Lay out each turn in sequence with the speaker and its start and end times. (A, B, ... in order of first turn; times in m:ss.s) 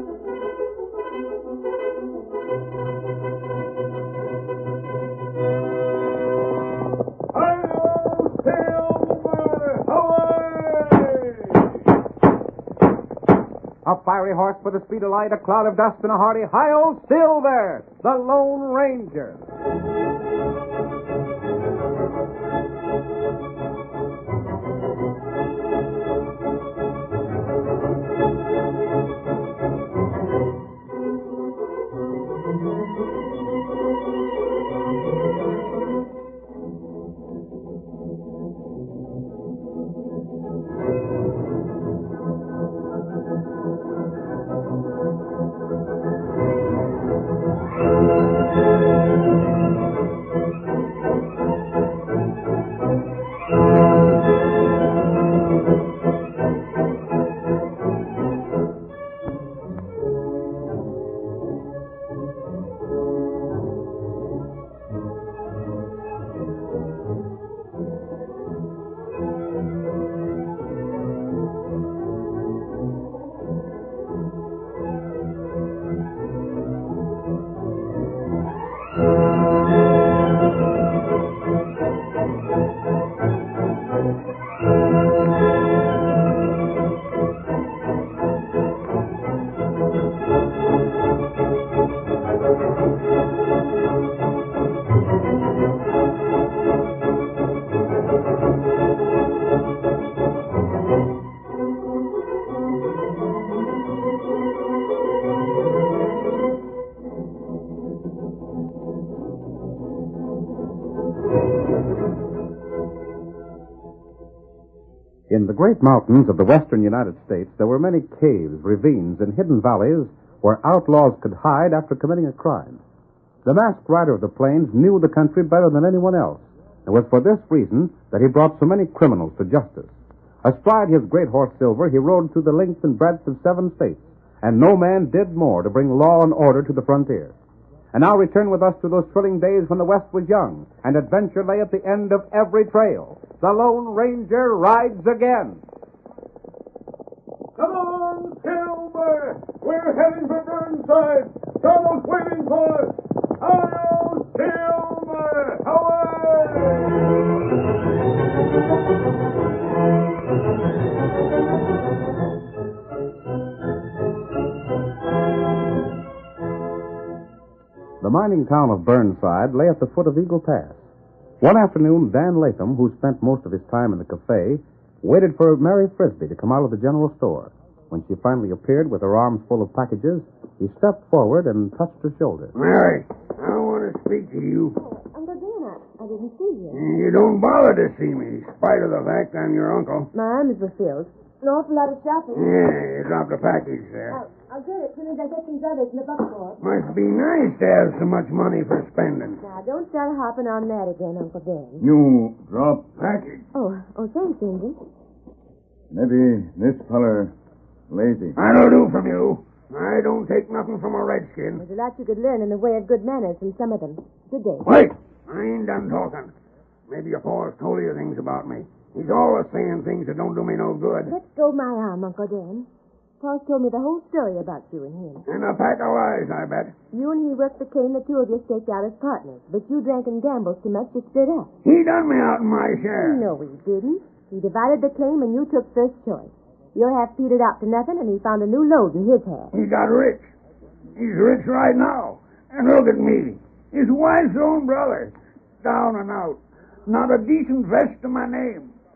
0:07.3-0:11.7 A
0:13.8-0:19.4 B
1:55.3-2:02.8 B
2:03.4-2:09.9 B
2:10.4-2:17.4 B
2:17.9-2:25.6 B
2:27.6-2:37.1 A
2:48.0-2:50.8 B
2:51.4-3:02.5 B
3:02.6-3:04.8 C
3:04.8-3:06.8 D
3:06.7-3:10.1 C
3:10.1-3:12.5 D
3:12.3-3:14.2 C
3:14.1-3:16.6 D
3:16.6-3:19.4 C
3:19.4-3:21.8 D
3:21.8-3:22.9 E
3:23.0-3:23.4 C
3:23.5-3:24.8 D
3:25.9-3:27.3 E
3:27.9-3:28.4 E
3:28.4-3:31.6 C
3:31.6-3:34.7 D
3:34.6-3:36.3 C
3:36.9-3:41.1 C
3:41.1-3:42.7 D
3:43.2-3:45.2 D
3:45.3-3:46.8 C
3:46.9-3:51.5 D
3:51.6-3:53.2 C
3:53.0-3:59.5 D
3:59.5-4:00.3 C
4:01.0-4:08.7 C